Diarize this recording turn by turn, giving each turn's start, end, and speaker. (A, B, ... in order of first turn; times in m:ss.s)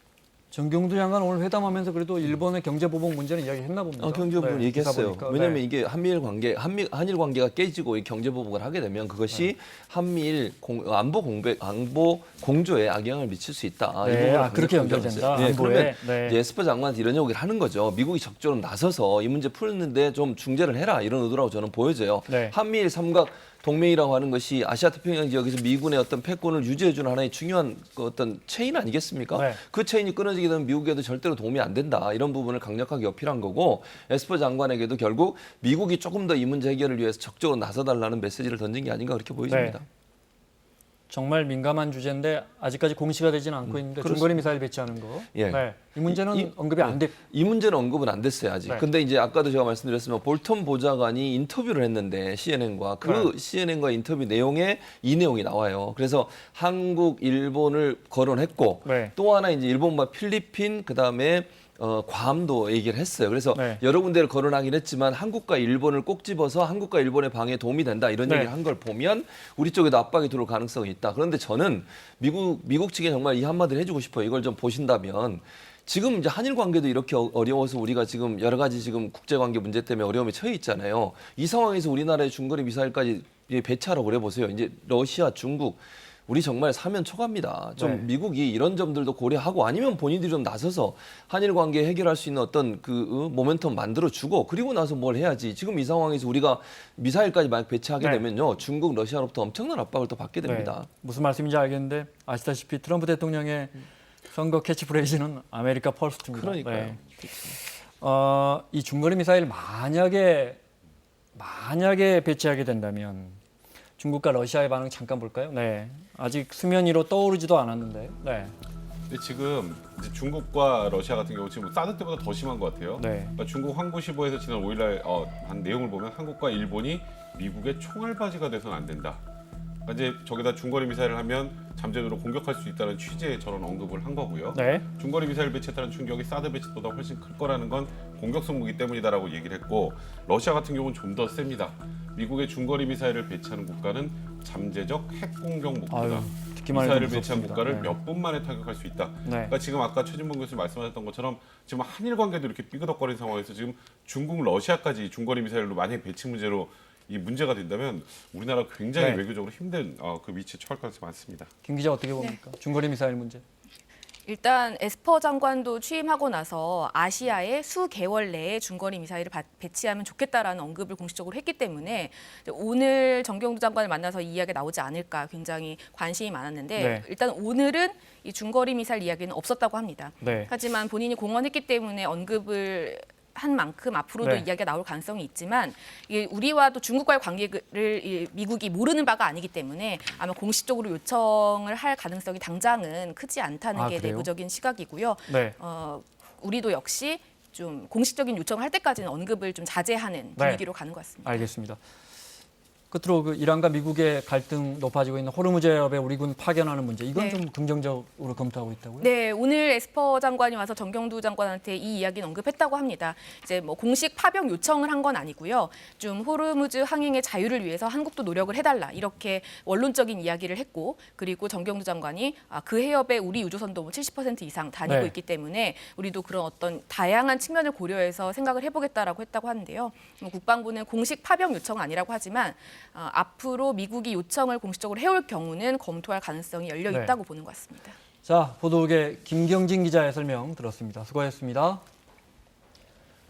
0:00.5-0:05.6 A
0:04.0-0:39.9 B
0:14.0-0:16.4 A
0:22.3-0:22.6 A
0:29.3-0:29.6 A
0:39.5-0:39.8 A
0:41.1-0:47.2 A
0:43.7-0:44.4 B
0:45.3-1:40.9 B
0:53.0-0:53.3 A
0:58.8-0:59.1 A
1:03.5-1:03.8 A
1:08.2-1:08.5 A
1:27.8-1:28.1 A
1:38.0-1:38.2 A
1:40.4-1:47.0 A
1:46.3-1:47.6 B
1:47.6-1:50.6 A
1:51.4-1:53.4 A
1:54.0-1:58.5 A
1:59.1-2:09.2 C
2:03.0-2:03.4 A
2:09.9-2:41.5 C
2:14.5-2:14.9 A
2:25.9-2:28.0 A
2:29.2-2:29.5 A
2:39.0-2:39.2 A
2:41.6-2:43.4 A
2:44.3-3:21.5 D
2:56.8-2:57.0 A
3:00.2-3:00.5 A
3:04.2-3:04.5 A
3:13.8-3:14.3 A
3:15.3-3:15.6 A
3:20.4-3:20.6 A
3:21.2-3:21.8 A
3:22.9-3:29.1 A
3:27.2-3:27.4 D
3:29.0-3:58.0 D
3:44.9-3:45.1 A
3:56.9-3:57.2 A
3:58.2-4:01.8 A